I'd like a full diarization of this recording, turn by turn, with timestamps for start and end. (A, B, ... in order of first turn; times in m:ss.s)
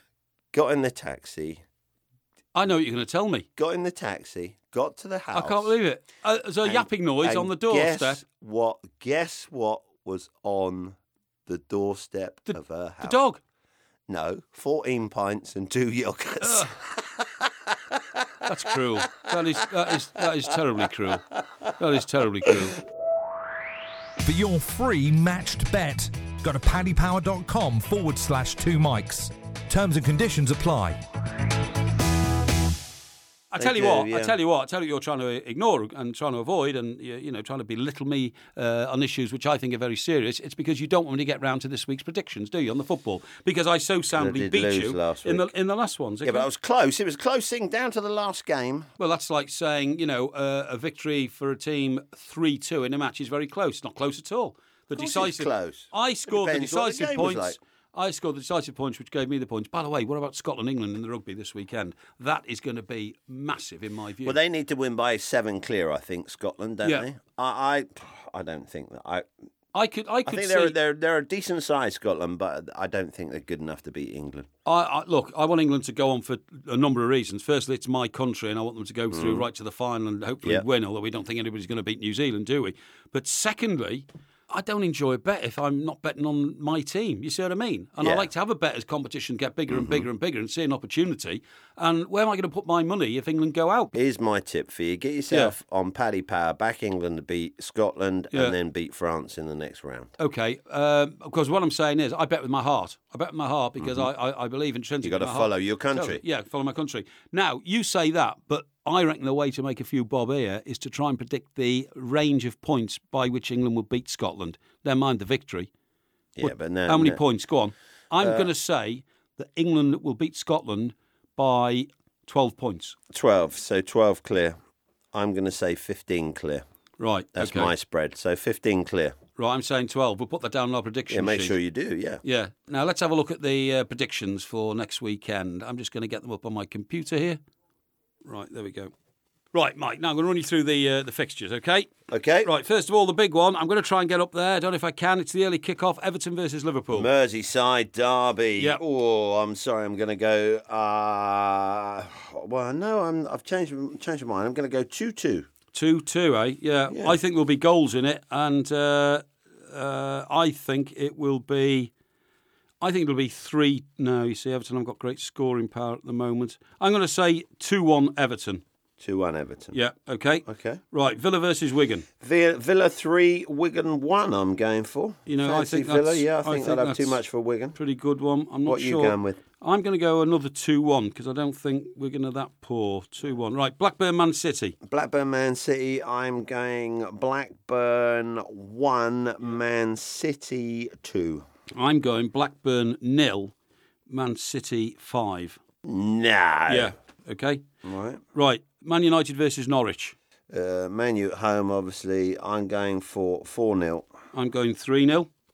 0:00.5-0:01.6 A
0:02.6-0:03.5 B
0:03.6-0:05.7 A
0:05.3-0:08.2 B
0:06.6-0:13.2 A
0:12.5-0:13.4 B
0:14.1-0:18.5 A
0:16.4-0:16.7 B
0:18.4-0:22.8 B
0:24.2-0:31.0 C
0:33.5-0:46.5 B
0:33.6-0:34.4 A
0:44.1-0:45.5 A
0:46.2-0:48.9 A
0:49.0-1:04.4 B
0:55.0-0:57.6 A
1:04.2-1:09.3 A
1:09.7-1:10.8 B
1:10.3-1:14.5 A
1:14.6-1:33.9 B
1:19.1-1:19.4 A
1:28.0-1:28.3 A
1:29.7-1:30.1 A
1:33.9-1:40.1 A
1:40.2-1:55.7 B
1:43.8-1:44.1 A
1:45.0-1:46.2 A
1:56.4-1:57.2 A
1:56.4-2:03.0 B
1:58.2-1:58.5 A
2:03.1-2:04.6 A
2:05.1-2:06.6 A
2:07.0-2:07.7 B
2:07.4-2:09.2 A
2:09.4-2:11.6 B
2:11.1-2:12.2 A
2:12.2-2:17.4 B
2:18.2-2:18.9 B
2:19.5-2:21.9 B
2:22.1-2:22.5 A
2:22.4-2:27.1 B
2:26.9-2:35.5 A
2:35.7-2:41.9 B
2:36.9-2:37.2 A
2:42.8-2:48.6 B
2:49.0-2:49.8 A
2:49.7-2:52.1 B
2:50.5-2:50.8 A
2:52.2-2:57.8 A
2:55.3-2:57.2 B
2:57.8-3:04.8 B
2:58.7-2:59.4 A
3:04.8-3:11.4 A
3:11.7-3:13.5 B
3:14.1-3:15.6 B
3:15.8-3:16.9 A
3:16.7-3:17.6 B
3:17.8-3:18.2 A
3:18.3-3:20.2 B
3:20.5-3:24.1 A
3:24.3-3:25.3 B